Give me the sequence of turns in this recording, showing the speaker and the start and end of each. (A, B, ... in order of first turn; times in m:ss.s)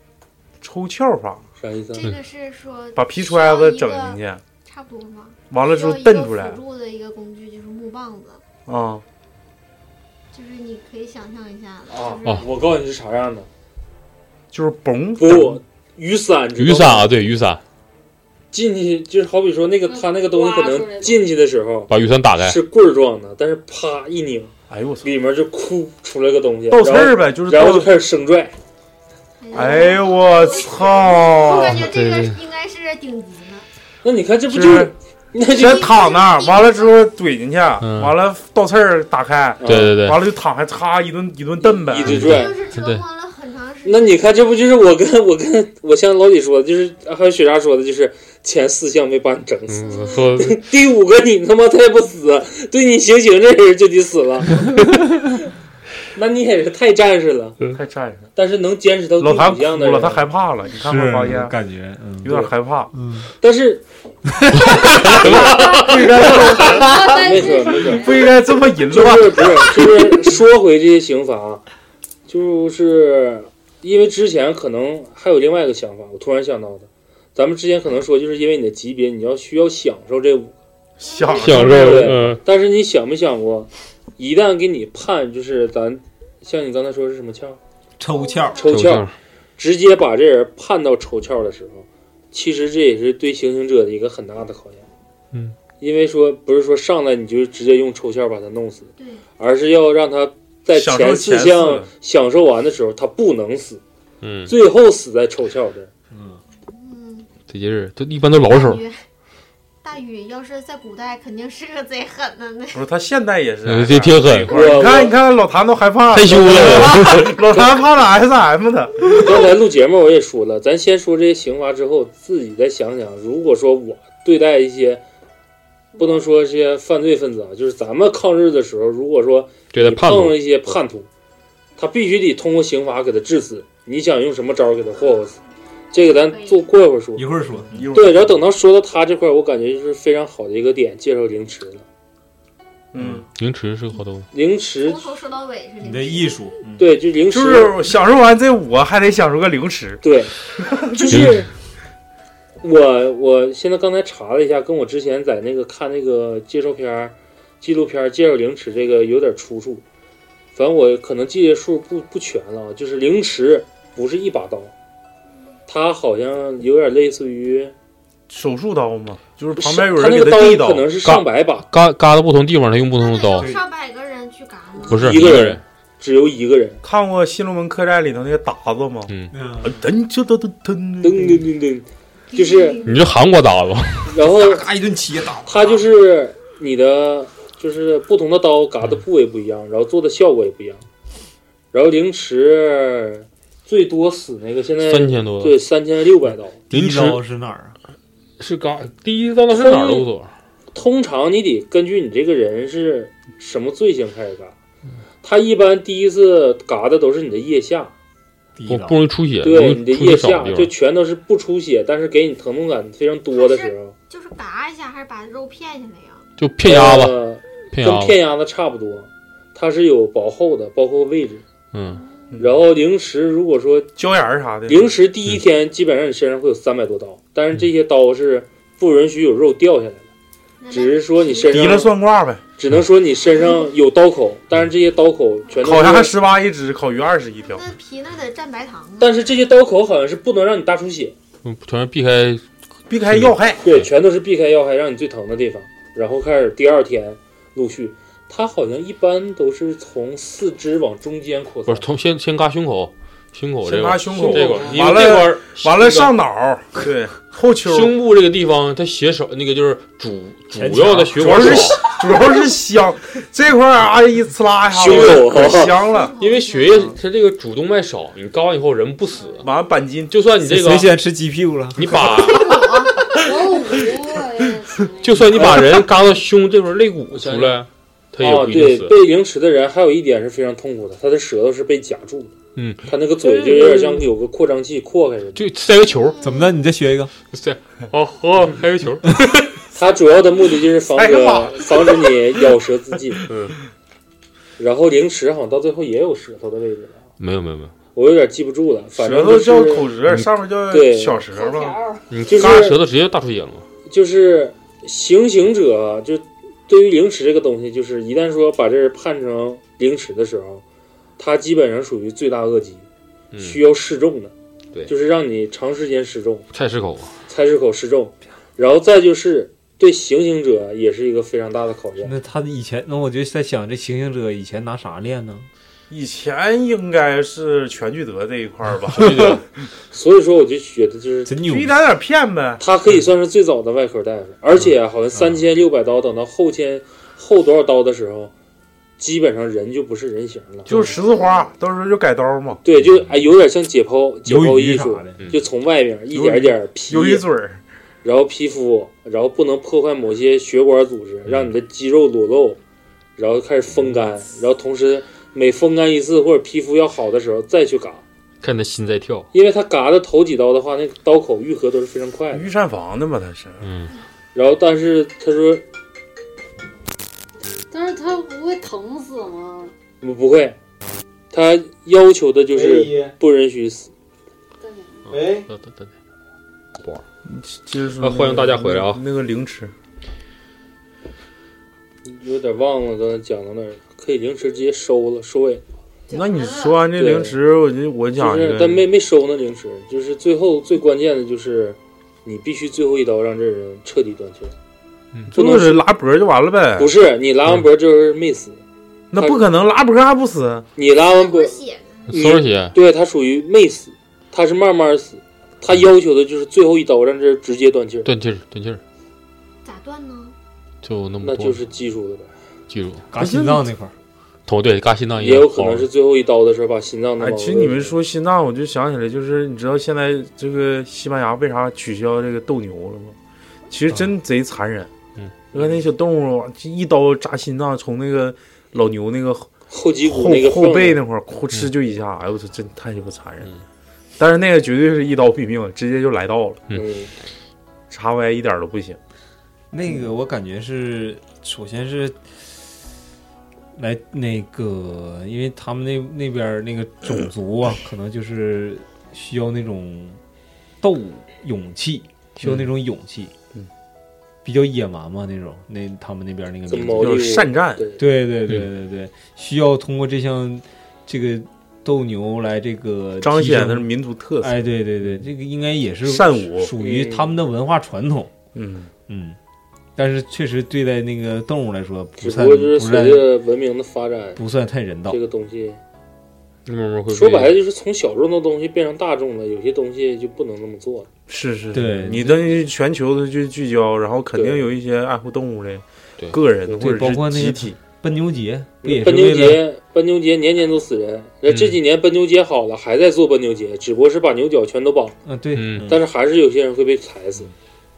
0:00.6-0:01.5 A
0:01.6-0:02.1 B
0:01.9-0:08.4 C
0:03.0-0:04.4 A
0:05.5-0:06.6 A
0:08.7-0:09.0 A
0:10.3-0:12.5 C
0:11.9-0:13.5 B
0:14.5-0:15.6 A
0:15.2-0:17.1 B
0:16.6-0:17.6 D
0:18.5-0:28.6 B
0:19.8-0:21.4 E
0:21.9-0:22.6 D
0:24.7-0:25.1 A
0:26.7-0:27.9 A
0:29.4-0:33.7 C
0:29.5-0:31.9 A
0:31.6-0:32.4 D
0:34.0-0:35.9 B
0:34.5-0:34.9 A
0:35.5-0:37.1 C
0:35.5-0:42.3 A
0:37.8-0:38.2 D
0:39.6-0:39.9 B
0:39.6-0:40.2 D
0:41.6-0:42.6 B
0:42.0-0:43.0 D
0:42.1-0:44.6 C
0:43.8-0:54.8 B
0:49.7-0:50.6 D
0:49.8-0:50.4 C
0:56.1-0:57.6 B
0:57.7-0:58.3 A
0:58.4-1:00.2 B
0:59.2-1:01.6 A
1:00.8-1:03.3 F
1:02.2-1:02.9 A
1:03.4-1:03.8 B
1:04.6-1:06.2 D
1:05.0-1:08.3 B
1:05.0-1:09.9 A
1:06.3-1:08.4 E
1:08.9-1:11.6 B
1:12.3-1:20.5 B
1:21.0-1:22.3 A
1:21.0-1:21.8 C
1:21.4-1:22.4 D
1:21.6-1:27.6 B
1:28.0-1:28.7 F
1:28.1-1:28.8 C
1:28.6-1:34.9 B
1:28.7-1:29.1 D
1:35.8-1:43.8 B
1:39.0-1:39.3 C
1:40.7-1:41.9 A
1:44.2-1:44.5 D
1:44.5-1:45.9 B
1:46.1-1:46.4 F
1:46.7-1:47.3 C
1:47.5-1:48.8 D
1:48.4-1:49.1 C
1:49.8-1:52.8 C
1:52.7-1:59.5 A
1:53.6-1:54.5 D
1:54.5-1:55.2 B
1:56.1-1:57.4 D
1:59.2-2:05.0 B
2:06.0-2:11.1 B
2:09.7-2:10.7 D
2:11.8-2:15.3 B
2:15.0-2:15.3 C
2:15.9-2:17.3 B
2:16.0-2:16.7 C
2:17.2-2:17.9 F
2:17.7-2:18.4 A
2:17.9-2:21.8 B
2:22.9-2:23.3 A
2:23.0-2:23.2 F
2:23.4-2:24.3 D
2:24.3-2:25.1 B
2:24.8-2:26.4 C
2:25.8-2:26.8 F
2:26.8-2:27.8 B
2:27.3-2:30.0 A
2:30.0-2:30.3 B
2:30.6-2:31.3 A
2:30.9-2:31.5 B
2:31.1-2:31.5 D
2:32.6-2:39.8 B
2:40.6-2:44.7 B
2:45.7-2:47.7 B
2:48.3-2:50.9 A
2:49.6-2:51.7 B
2:51.0-2:53.5 D
2:53.0-2:55.3 C
2:53.4-2:53.6 F
2:54.9-2:55.6 D
2:54.9-2:56.8 B
2:56.8-3:01.5 A
2:59.1-2:59.3 D
2:59.3-2:59.8 F
3:01.0-3:02.8 B
3:02.3-3:03.1 C
3:02.8-3:04.1 D
3:04.1-3:04.7 B
3:04.2-3:05.9 F
3:05.4-3:10.9 B
3:11.7-3:16.6 B
3:14.8-3:15.6 D
3:16.7-3:17.8 F
3:16.7-3:17.2 D
3:18.4-3:20.3 D
3:19.5-3:20.1 B
3:20.7-3:24.6 B
3:25.2-3:27.9 B
3:28.6-3:29.0 F
3:28.7-3:30.7 D
3:29.4-3:33.9 B
3:33.3-3:36.3 C
3:36.4-3:37.2 D
3:36.6-3:41.4 B
3:37.7-3:38.2 D
3:41.7-3:42.0 D
3:41.9-3:42.4 C
3:42.3-3:42.6 A
3:42.4-3:43.9 B
3:44.0-3:44.9 A
3:44.7-3:50.1 B
3:50.6-3:51.9 C
3:50.7-3:51.9 B
3:51.5-3:52.4 A
3:52.6-3:56.1 B
3:53.3-3:53.7 C
3:55.6-3:57.6 A
3:57.4-3:59.2 C
3:59.0-4:01.2 B
4:01.4-4:02.4 D
4:02.9-4:03.6 A
4:03.0-4:03.9 D
4:03.6-4:11.9 B
4:11.7-4:16.1 D
4:13.6-4:17.9 A
4:17.7-4:21.9 D
4:20.6-4:22.2 F
4:21.2-4:26.1 A
4:24.7-4:25.8 B
4:24.9-4:27.0 C
4:26.2-4:29.5 D
4:29.1-4:29.5 C
4:29.4-4:30.2 A
4:30.1-4:30.9 D
4:30.4-4:31.9 F
4:31.8-4:32.9 D
4:31.8-4:32.2 A
4:32.1-4:33.1 C
4:32.5-4:35.6 E
4:35.0-4:39.0 D
4:35.4-4:35.8 A
4:37.1-4:37.6 B
4:38.2-4:42.3 B
4:42.6-4:44.1 D
4:42.9-4:45.4 B
4:45.4-4:46.2 D
4:45.9-4:46.6 C
4:46.2-4:47.1 F
4:47.3-4:49.5 D
4:49.7-4:53.2 B
4:51.0-4:52.1 A
4:53.3-4:53.6 D
4:54.6-4:57.0 B
4:57.2-4:57.7 D
4:58.0-4:59.9 B
4:59.0-5:01.8 A
5:00.1-5:00.3 D
5:00.7-5:01.2 B
5:01.3-5:02.1 E
5:02.1-5:03.7 D
5:02.3-5:02.8 B
5:02.4-5:02.7 A
5:03.9-5:10.6 B
5:11.2-5:12.9 B
5:13.3-5:13.6 D
5:13.4-5:14.3 B
5:14.9-5:16.5 B
5:16.5-5:17.2 D
5:17.3-5:22.2 B
5:22.0-5:25.5 F
5:25.9-5:29.4 A
5:28.9-5:29.4 D
5:29.9-5:31.3 B
5:31.2-5:31.8 F
5:31.4-5:32.6 A
5:32.6-5:38.3 B
5:35.2-5:35.4 F
5:39.0-5:40.8 B
5:40.7-5:42.6 A
5:40.8-5:41.5 C
5:42.6-5:47.2 B
5:44.2-5:45.3 F
5:46.1-5:47.6 A
5:48.0-5:52.6 B
5:53.2-5:58.0 B
5:58.4-5:59.3 D
5:59.3-6:02.5 B
6:02.3-6:03.7 A
6:03.6-6:03.9 D
6:04.4-6:05.6 B
6:07.7-6:09.7 E
6:10.0-6:10.6 B
6:11.3-6:13.9 B
6:12.5-6:13.2 F
6:14.6-6:15.2 E
6:15.1-6:15.5 F
6:15.4-6:15.9 D
6:17.2-6:19.7 A
6:18.0-6:19.0 D
6:22.0-6:25.6 B
6:26.1-6:26.8 E
6:26.1-6:28.9 A
6:26.9-6:27.4 B
6:28.2-6:34.5 B
6:35.3-6:36.9 A
6:35.3-6:35.8 B
6:36.8-6:38.6 B
6:39.1-6:40.7 A
6:39.2-6:39.4 B
6:40.8-6:41.6 B
6:41.0-6:42.1 C
6:42.1-6:42.8 D
6:42.1-6:48.1 B
6:48.0-6:48.8 D
6:49.6-6:50.4 C
6:50.8-6:51.6 D
6:51.2-6:52.3 B
6:52.7-6:53.1 D
6:53.1-6:54.0 F
6:53.2-6:53.7 A
6:54.5-6:55.9 D
6:55.2-6:58.0 B
6:57.2-7:03.2 A
7:03.7-7:04.9 A
7:05.5-7:09.5 A
7:09.7-7:11.0 B
7:10.0-7:13.5 A
7:14.2-7:16.6 A
7:16.7-7:17.1 B
7:17.9-7:19.0 A
7:19.7-7:22.6 F
7:23.8-7:30.2 F
7:30.8-7:33.3 F
7:34.4-7:37.3 F
7:36.7-7:38.0 B
7:37.0-7:37.9 A
7:38.0-7:48.3 F
7:43.2-7:44.7 A
7:46.0-7:46.7 A
7:46.8-7:47.4 B
7:48.6-7:48.9 A
7:49.1-7:49.4 F
7:50.0-7:53.3 F
7:52.2-7:54.4 B
7:54.4-7:55.2 F
7:55.1-7:55.8 B
7:56.7-7:57.5 D
7:57.1-8:01.1 B
8:01.3-8:07.8 A
8:01.7-8:02.6 F
8:04.3-8:04.7 B
8:06.7-8:09.6 F
8:08.8-8:15.2 B
8:11.5-8:11.8 D
8:15.2-8:16.0 F
8:15.5-8:15.9 D
8:15.8-8:17.5 B